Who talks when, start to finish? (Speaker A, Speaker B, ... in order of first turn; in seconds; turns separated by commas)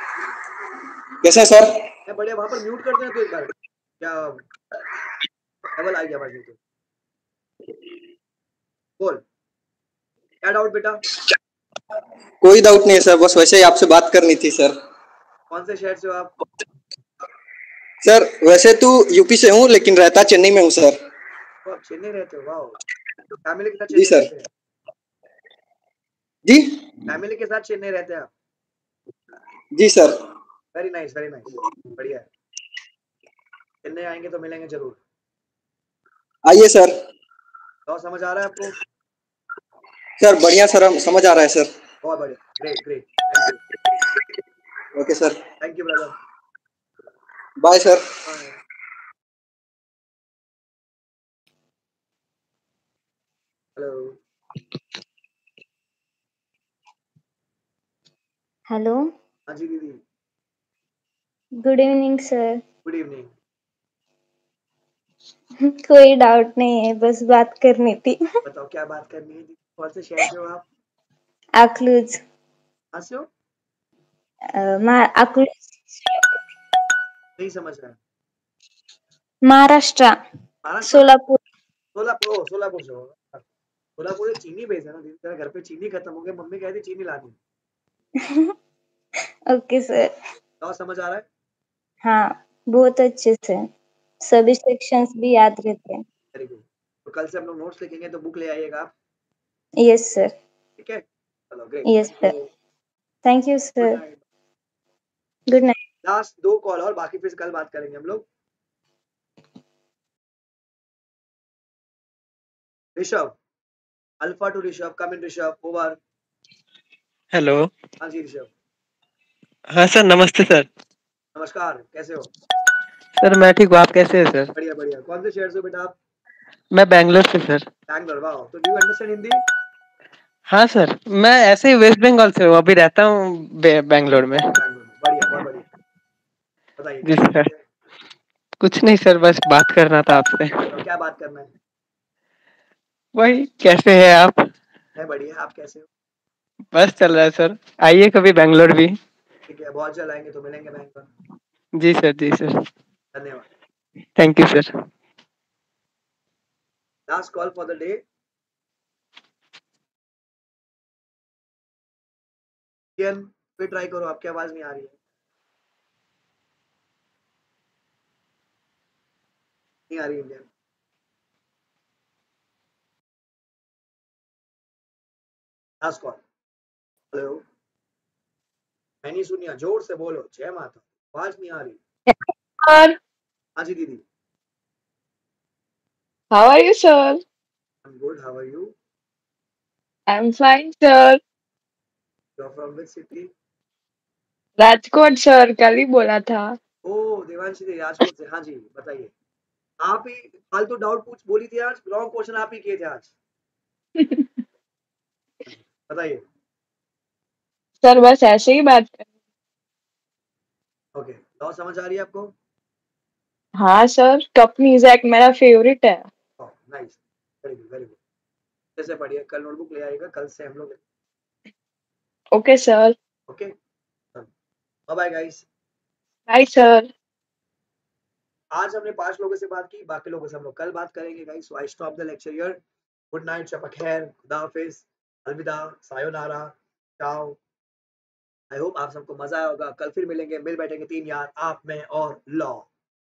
Speaker A: 1.2-1.9, Speaker B: 2.0-4.4, Speaker B: 5.7-6.6, Speaker B: 9.0-9.2, Speaker B: 10.4-11.0, Speaker A: 12.4-14.7, Speaker B: 15.5-16.3, Speaker A: 18.0-21.0, Speaker B: 21.6-22.8, Speaker B: 23.4-24.5, Speaker A: 23.9-24.3, Speaker A: 26.4-26.9, Speaker B: 27.1-28.3, Speaker A: 29.7-30.1, Speaker B: 30.7-32.3, Speaker B: 33.8-35.0, Speaker A: 36.5-36.9, Speaker B: 37.9-38.7, Speaker A: 40.2-41.7, Speaker B: 42.0-43.6, Speaker A: 44.9-45.4, Speaker B: 45.6-46.1, Speaker A: 47.6-48.0, Speaker B: 48.2-48.5, Speaker B: 53.8-54.2, Speaker C: 58.7-59.1, Speaker B: 59.5-60.0, Speaker C: 61.6-62.6, Speaker B: 62.8-63.3, Speaker C: 65.6-68.2, Speaker B: 68.4-70.6, Speaker C: 71.6-72.2, Speaker B: 72.9-73.3, Speaker C: 74.5-76.3, Speaker B: 77.4-78.0, Speaker C: 79.5-80.2, Speaker B: 80.6-81.1, Speaker C: 80.9-81.4, Speaker B: 81.9-83.4, Speaker B: 84.0-87.3, Speaker C: 88.2-88.5, Speaker C: 89.5-90.1, Speaker B: 90.6-91.2, Speaker C: 92.0-93.7, Speaker C: 94.2-96.0, Speaker B: 96.3-98.9, Speaker C: 99.8-100.3, Speaker B: 100.8-102.5, Speaker C: 101.8-102.3, Speaker C: 103.2-104.0, Speaker B: 103.8-104.2, Speaker C: 105.5-105.8, Speaker B: 106.0-108.2, Speaker B: 113.0-113.3, Speaker B: 114.2-116.0, Speaker D: 117.3-117.7, Speaker B: 118.0-118.5, Speaker D: 119.7-120.7, Speaker B: 121.3-122.3, Speaker D: 123.2-124.5, Speaker B: 124.5-126.0, Speaker D: 126.7-127.7, Speaker B: 127.9-129.4, Speaker D: 130.5-134.5, Speaker B: 134.4-135.6, Speaker B: 136.8-137.6, Speaker D: 137.0-137.5, Speaker D: 138.6-140.7, Speaker B: 140.6-141.5, Speaker D: 143.2-144.5, Speaker B: 144.9-145.9, Speaker D: 146.7-149.0, Speaker B: 149.5-151.1, Speaker D: 151.8-152.5, Speaker B: 153.1-153.5, Speaker D: 154.2-154.7, Speaker B: 157.1-158.0, Speaker B: 163.0-164.9, Speaker B: 169.9-170.5, Speaker B: 175.8-176.2, Speaker B: 177.1-177.4, Speaker B: 179.0-181.8, Speaker E: 182.1-182.9, Speaker B: 183.6-184.0, Speaker E: 186.3-187.2, Speaker B: 187.8-188.7, Speaker E: 190.1-191.2, Speaker B: 192.4-193.3, Speaker E: 194.6-196.6, Speaker B: 196.8-199.1, Speaker B: 199.8-203.1, Speaker E: 204.0-204.3, Speaker B: 205.5-206.2, Speaker E: 207.8-209.1, Speaker B: 210.9-212.3, Speaker E: 213.6-216.1, Speaker B: 216.4-218.0, Speaker B: 218.8-220.8, Speaker E: 222.3-222.9, Speaker B: 223.3-223.5, Speaker B: 224.9-225.4, Speaker E: 226.3-226.9, Speaker B: 228.5-232.6, Speaker B: 233.1-237.4, Speaker B: 238.5-242.7